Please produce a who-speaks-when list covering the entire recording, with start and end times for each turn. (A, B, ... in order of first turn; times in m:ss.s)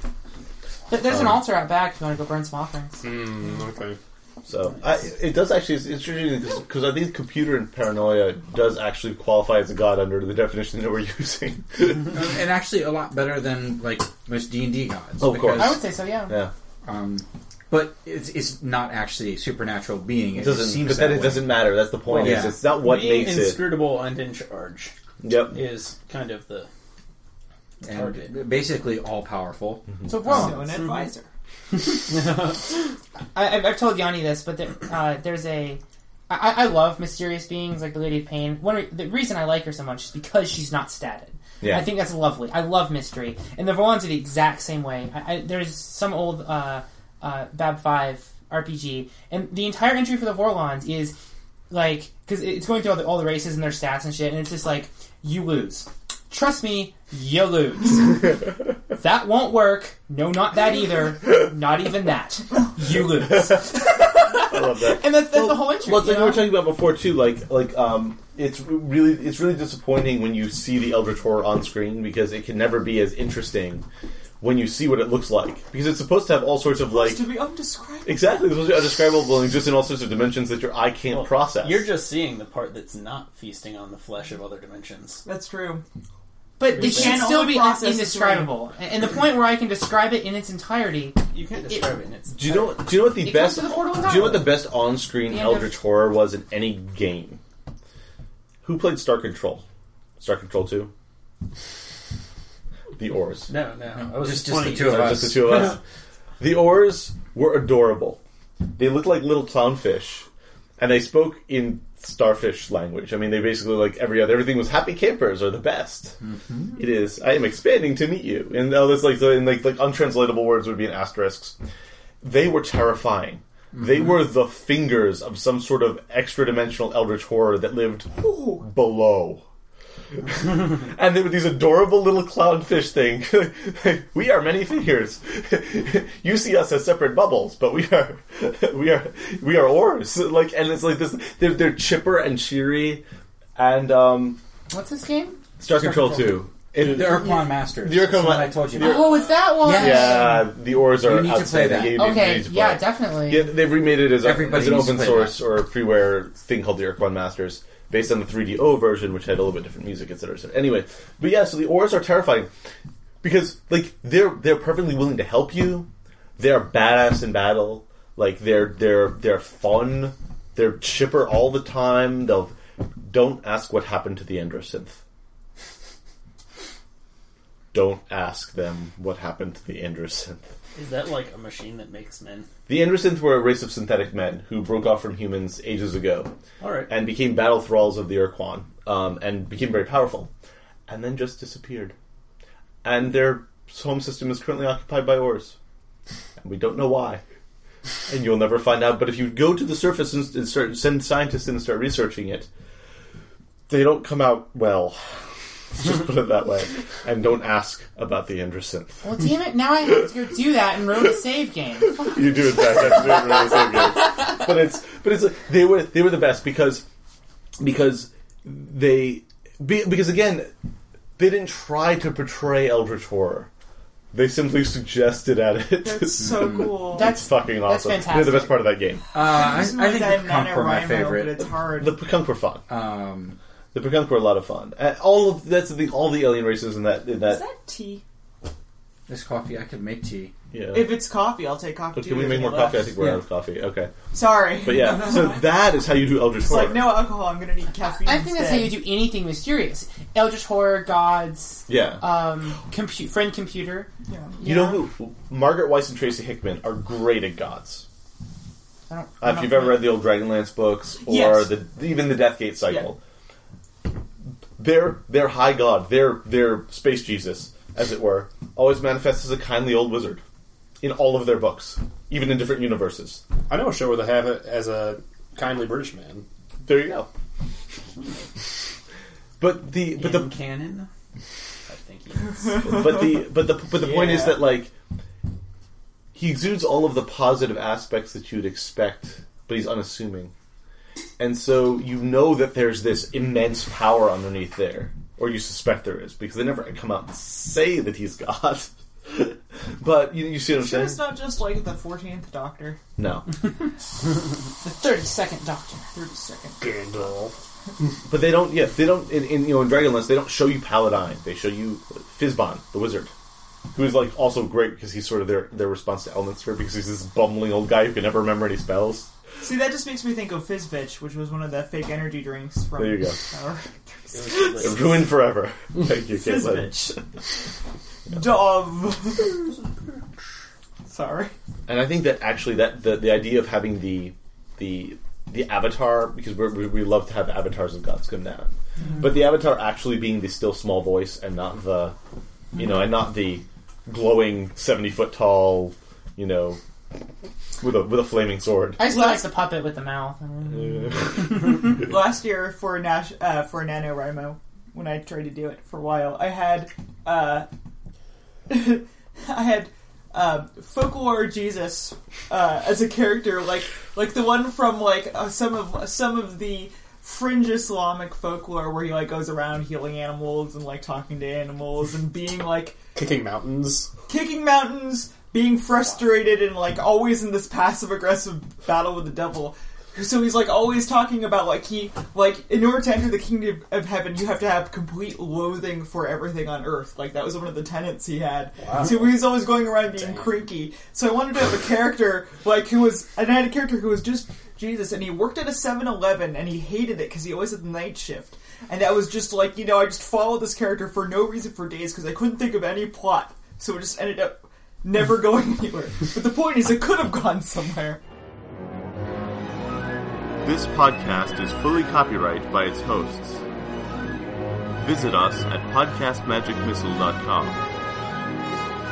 0:00.9-0:03.0 A
0:01.1-0:01.4 B
0:03.0-0:04.0 C
0:04.5-0:12.2 B
0:12.1-0:15.8 D
0:15.2-0:16.5 B
0:15.6-0:16.4 A
0:16.8-0:22.6 D
0:20.3-0:23.7 B
0:22.1-0:24.9 E
0:25.2-0:25.6 B
0:25.5-0:26.7 E
0:27.8-0:30.7 D
0:27.8-0:28.4 E
0:30.1-0:30.5 A
0:30.2-0:31.3 F
0:30.6-0:31.1 E
0:31.8-0:32.7 E
0:33.4-0:51.2 A
0:41.6-0:41.9 B
0:51.7-1:06.5 A
1:03.2-1:03.6 B
1:04.3-1:13.8 B
1:14.4-1:17.3 B
1:16.8-1:18.6 F
1:18.0-1:21.9 B
1:21.1-1:25.2 E
1:25.3-1:25.8 F
1:26.6-1:31.9 A
1:26.7-1:27.3 E
1:26.7-1:28.5 F
1:31.3-1:32.7 E
1:32.3-1:37.4 B
1:32.5-1:34.6 A
1:35.2-1:35.7 A
1:38.6-1:39.6 B
1:40.2-1:40.9 B
1:43.0-1:43.5 B
1:43.5-1:45.8 E
1:44.0-1:45.7 D
1:44.6-1:45.8 B
1:46.4-1:48.2 B
1:48.8-1:50.3 B
1:50.8-1:56.2 B
1:56.2-1:56.7 D
1:56.7-2:01.6 B
2:02.2-2:09.4 B
2:03.8-2:04.2 D
2:08.2-2:08.6 F
2:10.2-2:23.0 B
2:23.6-2:24.4 B
2:24.7-2:26.2 A
2:25.6-2:42.5 B
2:26.8-2:32.1 D
2:28.8-2:30.4 A
2:31.9-2:33.5 A
2:34.2-2:35.4 D
2:43.2-2:52.6 B
2:53.1-2:55.0 B
2:57.7-3:00.4 B
3:00.8-3:02.5 E
3:02.7-3:06.3 B
3:06.6-3:06.9 E
3:06.9-3:10.3 B
3:10.9-3:12.0 B
3:12.8-3:15.6 B
3:16.4-3:17.2 B
3:18.1-3:22.5 B
3:23.7-3:29.0 B
3:29.0-3:33.6 A
3:32.0-3:36.9 B
3:37.6-3:40.5 B
3:41.2-3:43.5 B
3:44.1-3:49.0 B
3:45.8-3:47.2 F
3:46.4-3:46.7 D
3:46.9-3:48.6 A
3:49.1-3:51.4 D
3:49.1-3:52.0 F
3:51.8-3:52.6 B
3:52.7-3:53.4 D
3:53.7-3:57.4 B
3:57.2-3:58.0 F
3:59.1-4:00.3 D
4:00.5-4:01.1 B
4:00.7-4:02.9 F
4:01.9-4:04.0 B
4:04.1-4:05.4 F
4:04.6-4:07.0 B
4:06.4-4:08.8 F
4:08.0-4:14.8 A
4:11.7-4:12.1 B
4:14.1-4:14.4 F
4:14.4-4:17.9 B
4:18.9-4:19.9 A
4:19.2-4:23.0 B
4:21.0-4:21.5 F
4:24.6-4:30.2 B
4:30.8-4:33.2 B
4:33.5-4:36.3 C
4:36.6-4:37.1 B
4:39.4-4:40.4 B
4:39.9-4:40.9 E
4:41.7-4:42.7 E
4:42.4-4:43.1 F
4:42.6-4:44.7 B
4:43.7-4:44.4 F
4:46.2-4:50.3 B
4:51.2-5:01.0 B
5:00.5-5:02.8 F
5:03.0-5:03.3 B
5:04.6-5:05.9 A
5:05.9-5:07.1 F
5:06.6-5:07.4 C
5:08.1-5:13.1 B
5:13.7-5:19.1 B
5:19.4-5:24.9 F
5:22.8-5:23.2 B
5:24.1-5:24.9 E
5:24.6-5:27.0 B
5:26.1-5:27.0 F
5:28.1-5:29.5 F
5:30.9-5:31.3 F
5:31.7-5:42.0 B
5:42.6-5:46.6 B
5:47.6-5:48.8 B
5:48.8-5:51.3 A
5:48.9-5:49.2 F
5:50.5-5:51.7 B
5:51.3-5:57.5 F
5:58.5-6:12.8 F
6:13.0-6:13.9 C
6:14.1-6:48.0 F
6:28.6-6:29.2 C
6:50.4-6:53.4 B
6:54.8-6:57.6 B